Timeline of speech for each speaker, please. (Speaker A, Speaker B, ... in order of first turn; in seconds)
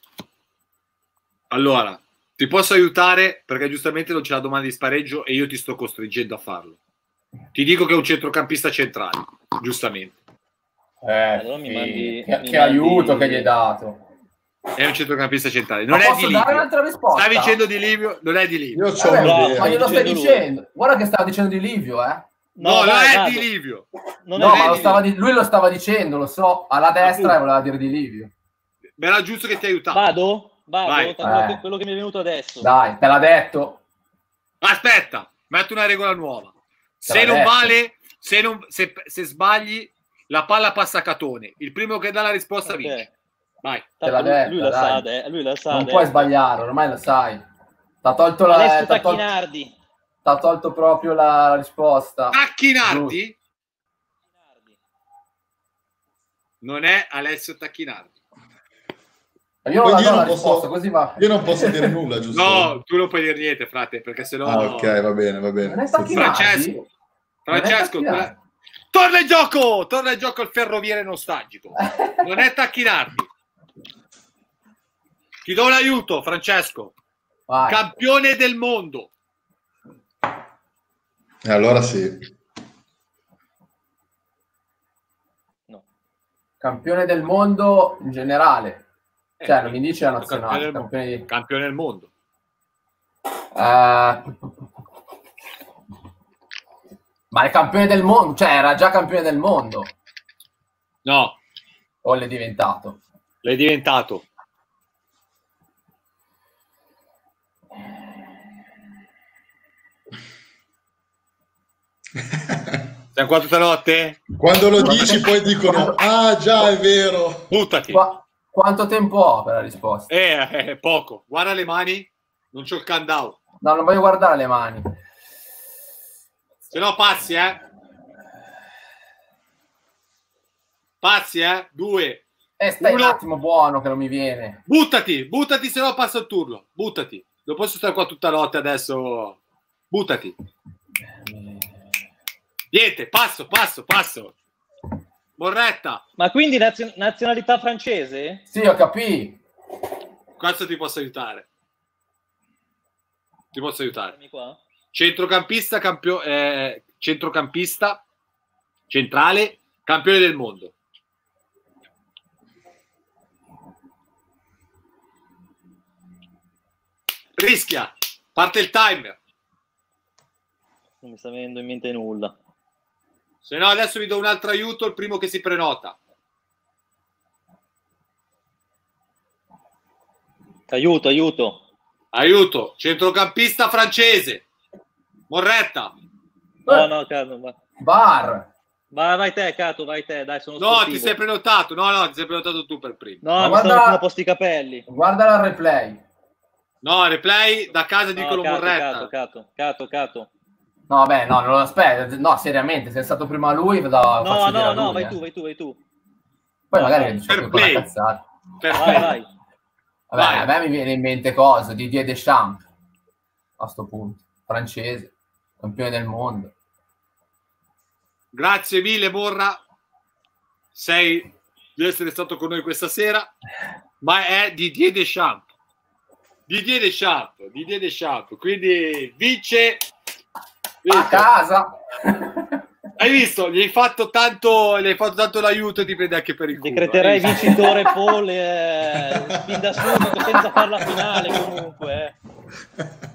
Speaker A: 1.5-6.8, 7.5-10.1, 14.8-18.9, 22.6-25.0, 27.0-27.4, 29.0-30.0, 30.8-31.2, 34.6-43.0, 43.6-43.9, 52.3-53.3, 56.6-58.1, 62.3-64.9, 66.1-66.8, 67.4-68.3, 68.9-73.3, 75.4-76.9, 77.7-79.1, 89.4-92.1, 101.0-101.4, 103.4-104.2, 113.1-114.3, 117.5-118.0, 120.1-123.4, 126.7-127.6, 131.0-132.2, 132.8-133.2, 134.7-139.4, 139.9-140.3, 142.7-144.3, 145.4-146.0, 150.4-151.5, 153.5-154.1, 154.9-158.0, 158.9-160.7, 167.3-169.2, 173.4-175.9, 182.1-184.4, 185.3-185.9, 190.6-193.2, 196.8-199.1, 207.3-207.9, 208.6-209.1, 210.2-210.5, 218.3-219.6, 220.7-223.3, 224.0-225.5, 226.5-229.8, 230.8-231.3, 233.0-237.7
Speaker B: 11.0-14.0, 15.9-17.6, 19.0-22.3, 24.4-28.3, 31.2-31.6, 32.6-33.8, 37.0-37.7, 44.0-45.0, 45.7-47.4, 48.0-49.2, 50.2-53.2, 59.6-61.9, 65.6-66.8, 67.5-68.3, 71.8-72.2, 77.5-77.8, 86.6-88.8, 89.4-91.2, 93.5-94.5, 97.3-99.9, 102.0-103.0, 114.8-116.0, 117.9-120.1, 123.6-124.9, 132.6-134.6, 141.2-141.7, 148.5-149.4, 187.8-188.5, 193.4-194.0, 194.9-196.0, 200.9-205.2, 206.7-208.2, 210.1-212.6, 213.6-216.5, 230.9-232.6, 237.4-237.7
Speaker C: 11.3-13.5, 19.1-20.5, 22.6-23.5, 24.2-25.1, 29.9-32.7, 42.6-43.1, 44.0-46.3, 48.5-49.7, 54.3-54.8, 146.2-148.4, 154.1-154.6, 171.0-172.3, 180.7-181.6, 186.7-187.5, 188.9-191.2, 193.2-194.8, 198.2-200.3, 204.2-205.8, 206.7-207.2, 208.8-209.3, 236.6-242.1
Speaker D: 18.7-19.8, 59.8-62.7, 64.4-66.4, 81.4-82.3, 112.2-112.9, 114.4-117.5, 239.1-241.6